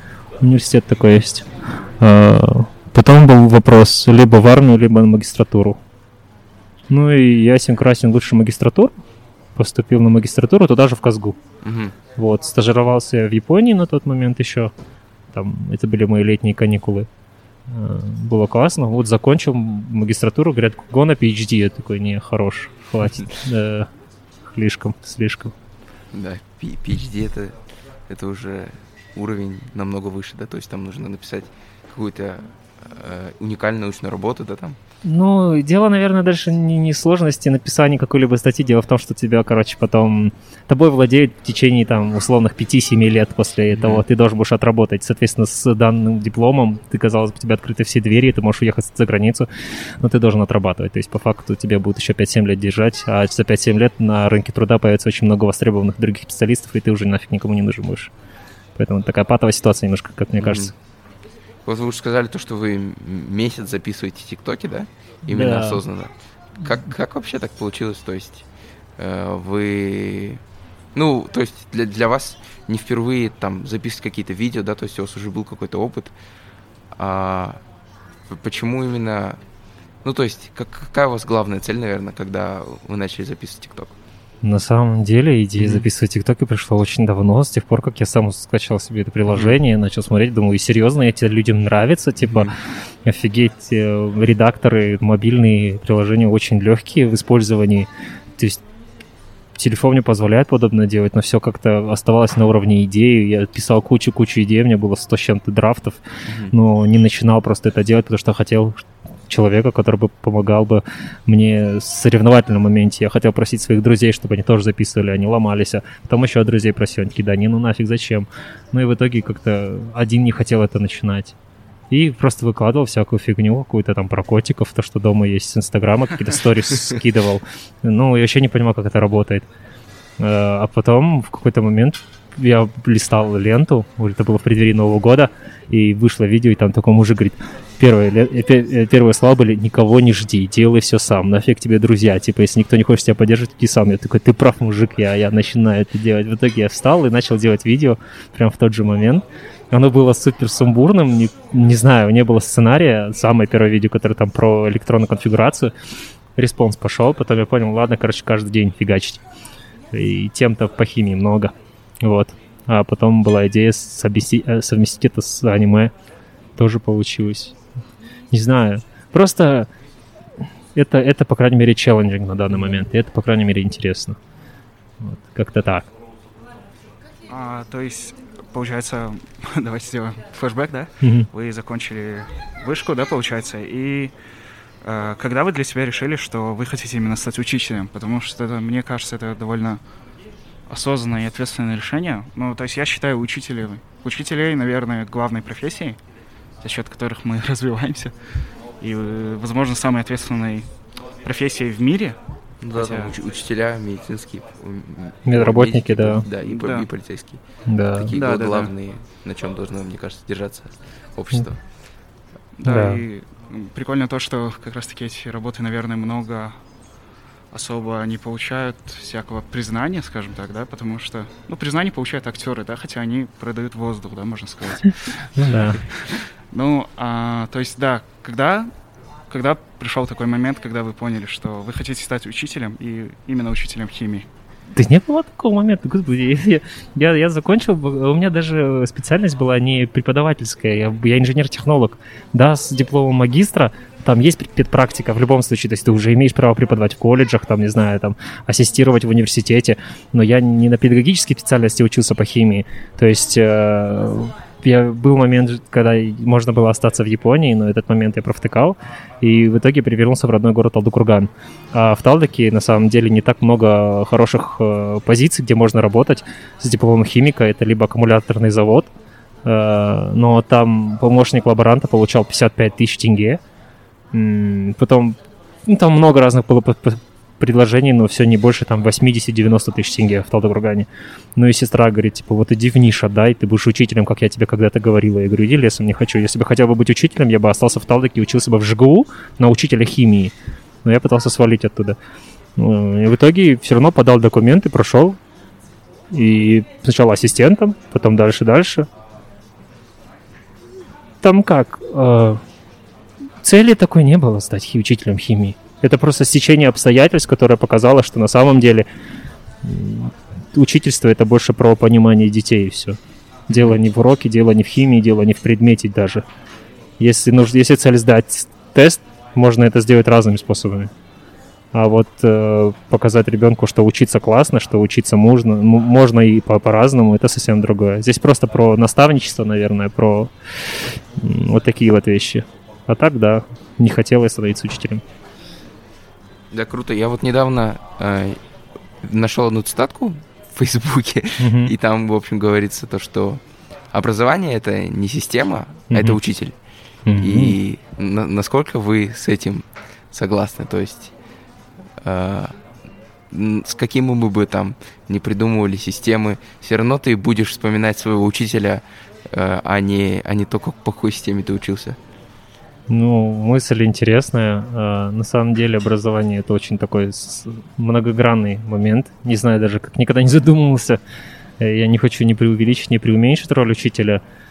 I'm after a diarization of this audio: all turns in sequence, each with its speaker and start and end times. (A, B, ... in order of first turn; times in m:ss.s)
0:00.4-0:01.5 A
0:02.0-0:05.8 A
0:06.9-0:09.0 A
0:09.6-0:11.4 A
0:11.6-0:11.9 B
0:12.2-0:14.7 A
0:15.3-0:17.1 A
0:17.7-0:23.9 A
0:24.5-0:25.5 A
0:26.1-0:27.6 B
0:28.1-0:34.8 B
0:35.0-0:58.1 A
0:43.7-0:44.0 B
0:58.8-1:00.7 A
1:00.4-1:00.7 B
1:01.6-1:08.4 B
1:05.3-1:05.8 A
1:09.0-1:10.4 B
1:10.9-1:16.1 B
1:17.0-1:17.6 B
1:18.3-1:19.4 B
1:20.0-1:23.9 B
1:24.4-1:38.6 A
1:25.6-1:25.9 B
1:29.3-1:29.6 B
1:32.2-1:32.5 B
1:39.6-2:01.3 A
1:46.2-1:46.5 B
2:01.9-2:09.5 A
2:10.2-2:35.7 A
2:36.4-2:39.2 A
2:39.9-2:45.9 A
2:46.6-2:47.5 A
2:48.3-2:49.7 A
2:50.7-2:54.2 A
2:52.5-2:52.8 B
2:55.0-2:55.9 A
2:57.3-3:04.1 C
3:01.0-3:01.3 A
3:04.8-3:09.8 C
3:10.7-3:16.0 C
3:16.6-3:18.1 C
3:18.8-3:20.7 C
3:21.2-3:22.2 C
3:22.6-3:31.6 B
3:22.7-3:23.1 C
3:25.2-3:26.2 A
3:26.4-3:26.9 C
3:27.7-3:28.1 A
3:28.1-3:28.7 C
3:32.6-3:36.6 C
3:32.6-3:33.0 A
3:37.5-3:45.3 C
3:45.3-3:45.8 A
3:46.0-3:48.7 C
3:49.3-3:54.3 C
3:54.8-4:28.9 A
4:29.4-4:33.4 A
4:34.1-4:52.0 A
4:52.6-4:55.2 A
4:56.1-4:58.9 A
5:01.2-5:02.4 A
5:03.4-5:08.9 A
5:09.6-5:13.0 A
5:13.5-5:16.2 A
5:13.5-5:13.8 B
5:17.0-5:20.9 A
5:21.7-5:35.0 A
5:36.5-5:38.4 B
5:39.0-5:43.4 B
5:41.4-5:41.7 A
5:43.9-5:46.5 B
5:45.9-5:46.2 A
5:47.0-5:47.5 A
5:47.1-5:51.1 B
5:52.0-5:52.6 B
5:53.3-6:02.0 B
6:02.9-6:11.0 A
6:11.6-6:14.2 A